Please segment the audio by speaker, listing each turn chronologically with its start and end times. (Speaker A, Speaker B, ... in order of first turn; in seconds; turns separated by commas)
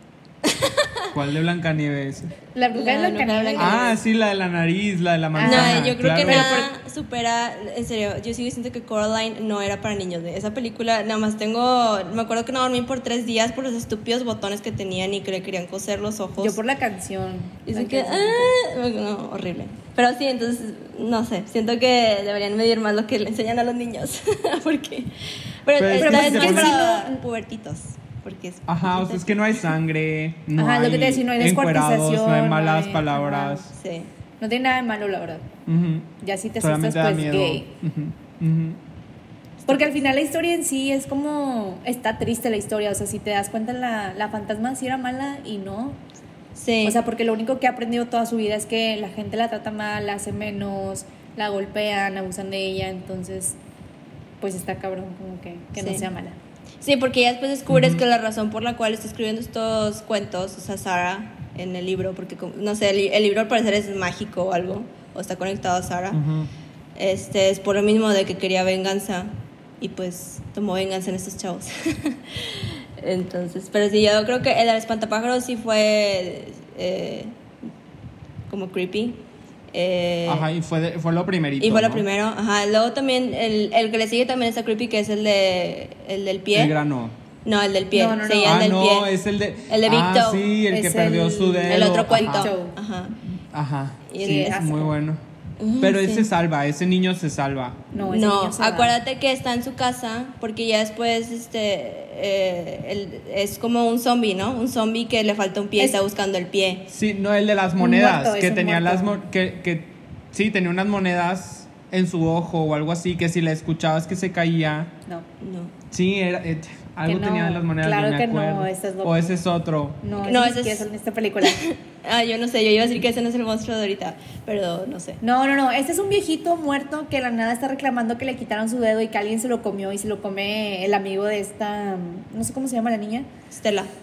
Speaker A: 0.4-1.1, Speaker B: 1.1-2.3, Speaker C: 2.5-4.0, Speaker A: 2.7-4.0, Speaker B: 3.6-6.7, Speaker C: 5.3-6.7, Speaker A: 5.4-16.6, Speaker C: 16.4-18.6, Speaker A: 17.7-29.7, Speaker B: 25.8-26.8, Speaker C: 25.9-27.2, Speaker B: 28.7-33.7, Speaker C: 30.6-33.7, Speaker A: 33.7-34.1, Speaker C: 34.4-35.5, Speaker B: 35.7-36.1, Speaker C: 36.2-37.7, Speaker B: 36.6-38.8, Speaker C: 39.7-46.0, Speaker A: 46.5-47.0, Speaker C: 46.8-53.6, Speaker C: 54.4-56.4, Speaker A: 55.8-56.0, Speaker A: 56.8-66.2, Speaker B: 57.7-58.0, Speaker B: 66.1-66.5, Speaker A: 67.0-77.4, Speaker A: 78.5-80.5, Speaker B: 80.3-82.0, Speaker A: 81.6-86.7, Speaker B: 86.5-87.2, Speaker A: 87.5-89.1, Speaker C: 87.9-88.7, Speaker B: 88.4-92.5, Speaker A: 89.7-90.5, Speaker C: 90.7-92.8, Speaker A: 91.7-93.2, Speaker B: 93.5-95.2, Speaker A: 94.1-94.8, Speaker C: 94.2-94.9, Speaker A: 95.6-96.3, Speaker B: 95.8-97.8, Speaker C: 97.9-99.0, Speaker A: 98.0-106.9, Speaker B: 106.9-114.9, Speaker C: 107.8-109.2, Speaker A: 115.4-115.8, Speaker B: 115.9-120.0, Speaker C: 117.0-119.4, Speaker C: 120.0-121.6, Speaker A: 120.2-120.9, Speaker A: 121.4-125.2, Speaker C: 125.2-133.3, Speaker A: 133.5-133.9